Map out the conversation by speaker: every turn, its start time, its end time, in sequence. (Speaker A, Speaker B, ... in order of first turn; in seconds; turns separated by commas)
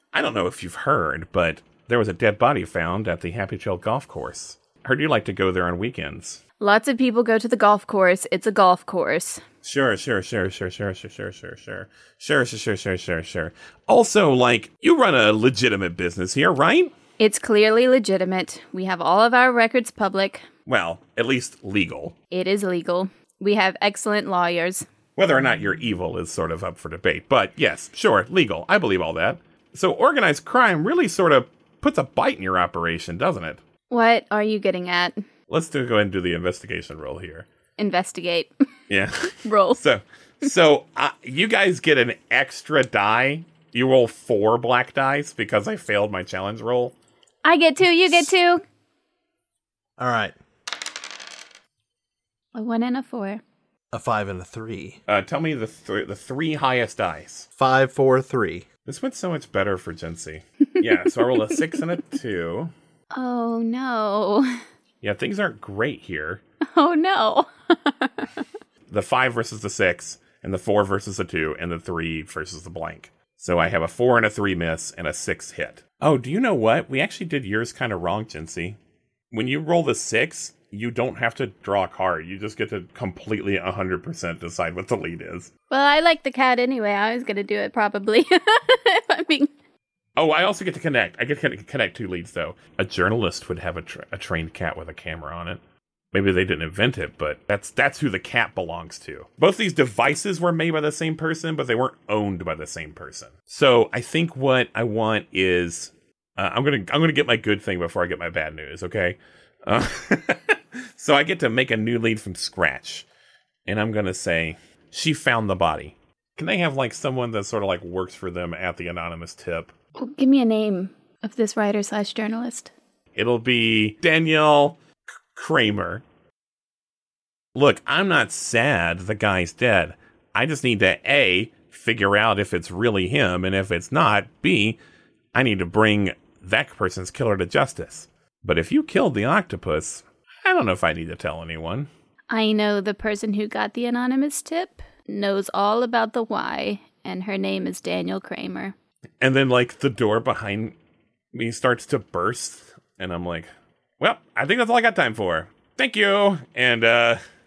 Speaker A: 0.1-6.4, Speaker B: 6.6-9.4, Speaker A: 9.6-16.9, Speaker B: 17.2-20.5, Speaker A: 20.6-22.1, Speaker B: 22.3-24.9, Speaker A: 25.1-33.6, Speaker B: 33.9-35.2, Speaker A: 35.5-37.5, Speaker B: 37.8-38.5, Speaker A: 38.9-46.9, Speaker B: 39.4-39.8, Speaker B: 47.4-48.6, Speaker C: 50.0-50.3, Speaker B: 52.5-53.4, Speaker C: 53.9-55.0, Speaker A: 55.1-57.5, Speaker C: 57.6-58.6, Speaker A: 58.9-62.7, Speaker B: 63.1-64.6, Speaker A: 65.0-66.4, Speaker B: 66.7-68.5, Speaker A: 68.9-78.8, Speaker A: 79.3-85.5, Speaker B: 85.7-89.5, Speaker A: 90.2-95.6, Speaker A: 96.1-113.0, Speaker A: 113.7-119.7, Speaker B: 120.0-122.7, Speaker A: 123.1-124.8, Speaker A: 125.3-126.0, Speaker A: 127.5-134.8, Speaker A: 135.3-141.9, Speaker B: 142.3-148.7, Speaker A: 149.2-150.7, Speaker A: 151.3-153.5, Speaker A: 154.0-157.2